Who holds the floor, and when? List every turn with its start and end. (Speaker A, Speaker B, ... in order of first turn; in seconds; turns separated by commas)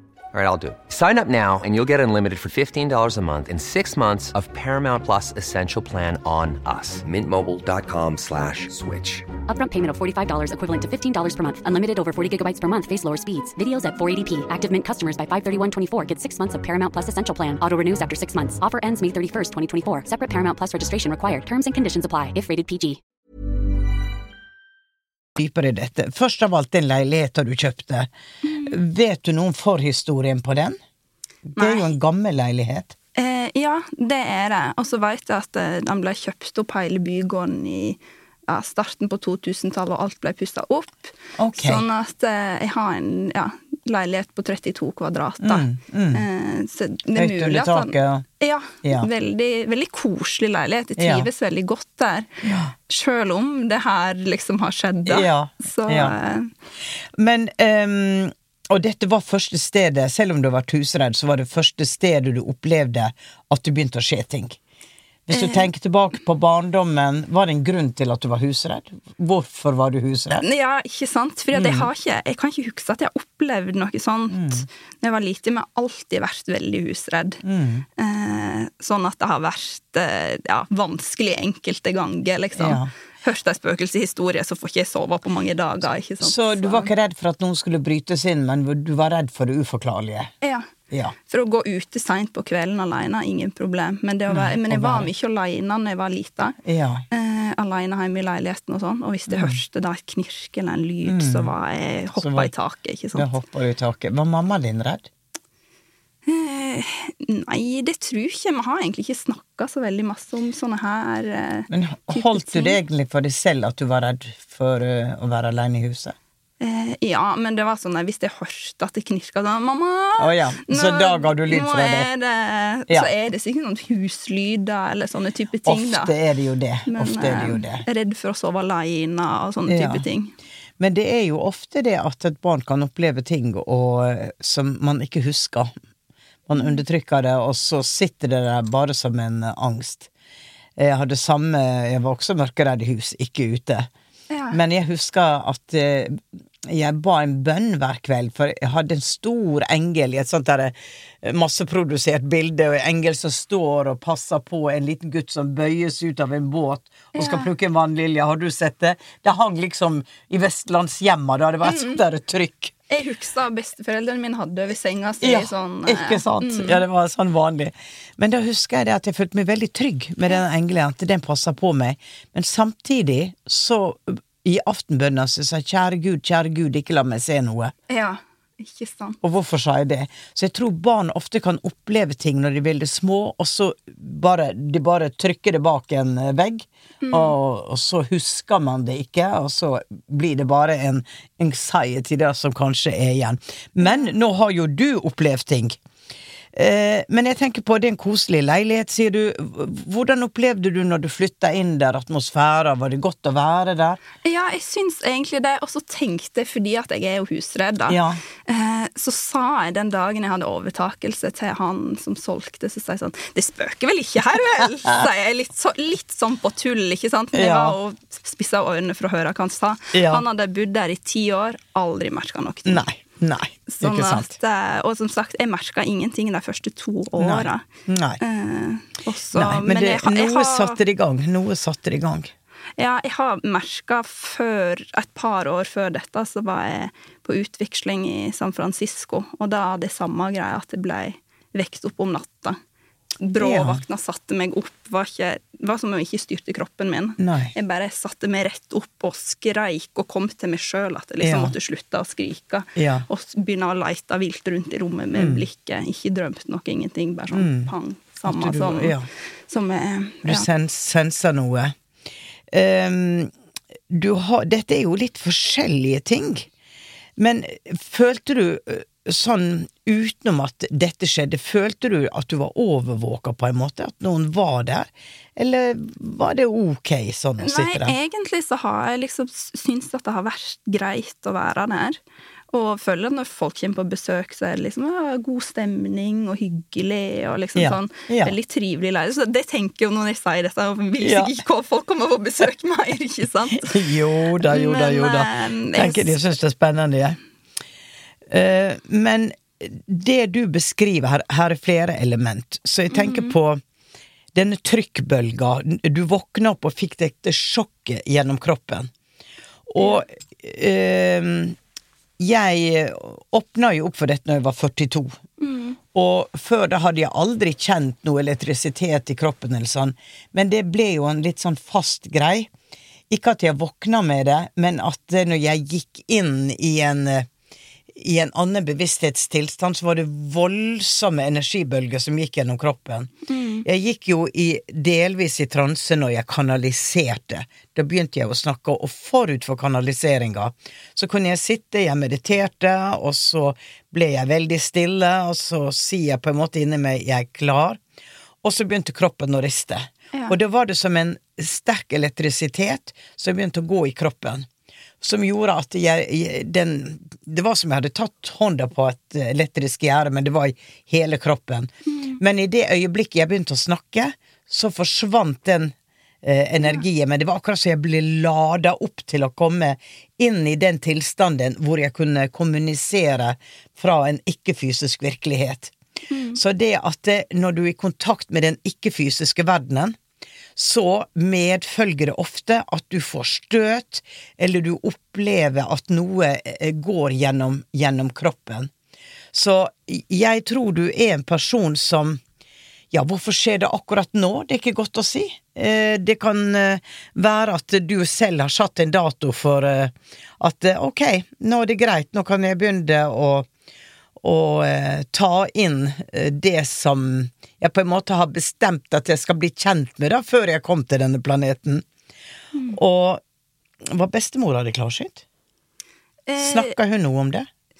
Speaker A: 0.3-9.3, Speaker B: 9.4-23.0, Speaker C: 25.4-28.1, Speaker D: 28.4-28.7, Speaker C: 28.6-30.8, Speaker C: 31.5-32.9, Speaker D: 31.6-31.9, Speaker D: 33.2-52.3, Speaker C: 41.4-41.8, Speaker C: 45.4-46.2, Speaker C: 47.1-48.2, Speaker C: 48.8-49.1, Speaker C: 51.0-51.2, Speaker C: 52.4-52.7, Speaker D: 52.9-56.5, Speaker C: 55.1-56.1, Speaker C: 57.2-64.6, Speaker C: 65.3-70.4, Speaker D: 65.3-65.7, Speaker D: 70.4-77.4, Speaker C: 71.5-71.9, Speaker C: 74.3-74.6, Speaker C: 77.4-77.8, Speaker D: 78.0-86.9, Speaker C: 82.6-82.9, Speaker C: 86.2-90.3, Speaker D: 90.4-90.7, Speaker D: 91.3-96.6, Speaker C: 94.3-95.1, Speaker C: 96.6-97.0, Speaker D: 97.1-103.4, Speaker C: 99.3-99.6, Speaker C: 101.0-101.5, Speaker C: 102.2-102.5, Speaker C: 103.1-105.1, Speaker D: 106.2-112.8, Speaker C: 111.7-116.1, Speaker D: 116.6-126.1, Speaker C: 120.2-122.1, Speaker C: 125.7-127.8, Speaker D: 126.9-130.3, Speaker C: 129.7-130.0, Speaker C: 130.8-135.7, Speaker C: 136.5-140.1, Speaker D: 136.6-136.8, Speaker C: 140.8-143.9, Speaker D: 144.3-144.6, Speaker C: 144.5-162.7, Speaker D: 157.2-157.5, Speaker D: 161.6-162.0, Speaker D: 162.9-166.8, Speaker C: 165.2-177.7, Speaker D: 177.9-179.2, Speaker C: 179.2-195.8, Speaker D: 187.0-187.3, Speaker D: 193.8-194.1, Speaker C: 196.5-204.0, Speaker D: 204.2-222.8, Speaker C: 207.9-208.2, Speaker C: 217.3-217.7, Speaker C: 219.9-220.2, Speaker C: 222.7-224.3, Speaker D: 223.7-227.6, Speaker C: 227.2-228.2, Speaker D: 228.2-230.8, Speaker C: 229.3-232.3, Speaker D: 232.8-242.6, Speaker D: 243.2-259.0, Speaker C: 243.4-243.8, Speaker C: 247.2-247.5, Speaker C: 251.2-251.5, Speaker C: 252.8-253.1, Speaker C: 255.1-255.4, Speaker C: 257.3-257.7, Speaker C: 258.2-259.1, Speaker D: 259.5-260.5, Speaker C: 260.2-261.7, Speaker C: 262.5-263.3, Speaker C: 263.9-266.5, Speaker C: 267.2-277.9, Speaker D: 277.4-282.0, Speaker D: 282.5-293.9, Speaker C: 287.6-288.3, Speaker C: 291.0-291.3, Speaker C: 293.6-297.2, Speaker D: 294.5-296.2, Speaker C: 298.3-303.6, Speaker D: 302.9-303.4, Speaker C: 304.3-308.9, Speaker C: 309.7-311.6, Speaker C: 312.2-315.2, Speaker D: 315.4-315.8, Speaker C: 315.9-322.5, Speaker C: 323.1-327.3, Speaker C: 327.9-333.1, Speaker D: 333.3-333.6, Speaker C: 333.6-347.8, Speaker C: 348.4-354.4, Speaker C: 355.0-365.7, Speaker D: 361.9-362.2, Speaker C: 366.2-375.7, Speaker D: 376.1-376.4, Speaker C: 376.4-379.9, Speaker C: 380.6-388.7, Speaker C: 389.3-392.2, Speaker C: 392.9-403.5, Speaker C: 404.2-411.8, Speaker C: 412.7-413.2, Speaker C: 413.9-415.2, Speaker D: 416.3-416.7, Speaker C: 416.4-417.5